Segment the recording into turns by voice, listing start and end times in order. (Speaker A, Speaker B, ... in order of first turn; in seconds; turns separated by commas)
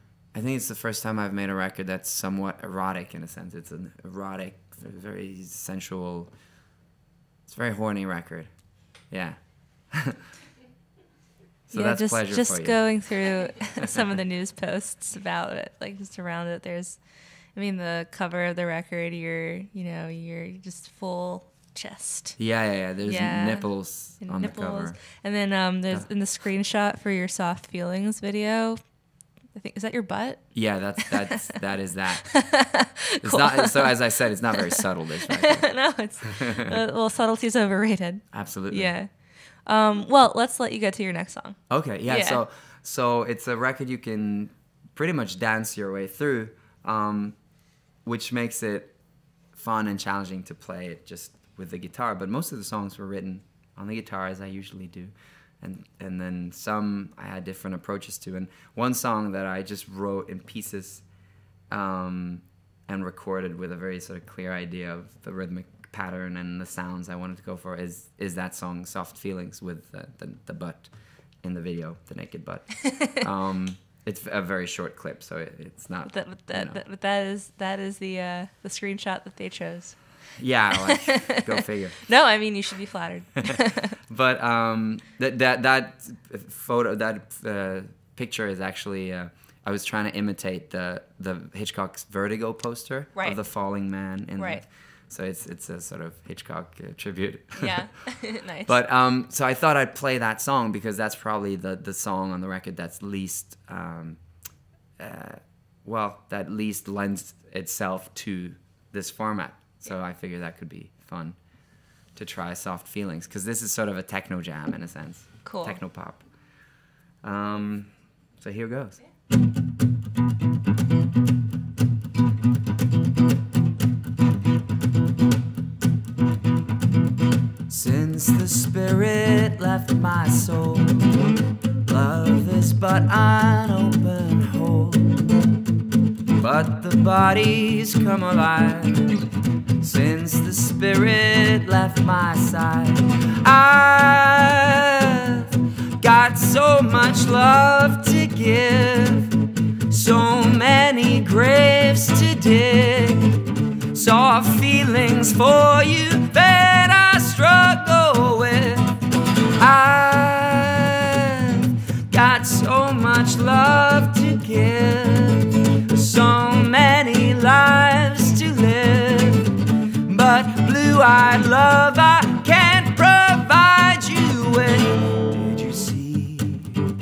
Speaker A: 0.3-6.3, Speaker A: 7.5-8.5, Speaker A: 9.0-10.2, Speaker A: 11.7-12.9, Speaker B: 11.7-17.0, Speaker A: 13.8-14.1, Speaker B: 17.5-22.4, Speaker A: 22.4-25.0, Speaker B: 23.0-23.7, Speaker B: 24.2-28.8, Speaker B: 29.5-31.6, Speaker A: 30.5-32.5, Speaker B: 32.2-34.0, Speaker A: 33.2-35.8, Speaker B: 34.7-42.4, Speaker A: 36.3-36.7, Speaker A: 38.3-39.0, Speaker A: 41.7-47.3, Speaker A: 48.0-48.9, Speaker A: 49.5-61.0, Speaker A: 61.7-70.9, Speaker A: 71.4-76.8, Speaker B: 76.0-80.0, Speaker A: 80.4-82.0, Speaker B: 80.8-84.0, Speaker A: 83.4-97.9, Speaker B: 94.4-94.6, Speaker B: 97.6-98.7, Speaker A: 98.7-104.2, Speaker A: 105.0-111.4, Speaker A: 112.1-116.2, Speaker B: 115.4-115.8, Speaker A: 117.2-119.0, Speaker A: 127.7-131.1, Speaker A: 131.8-135.2, Speaker A: 136.4-139.2, Speaker A: 139.8-149.3, Speaker A: 149.9-159.0, Speaker A: 159.6-176.8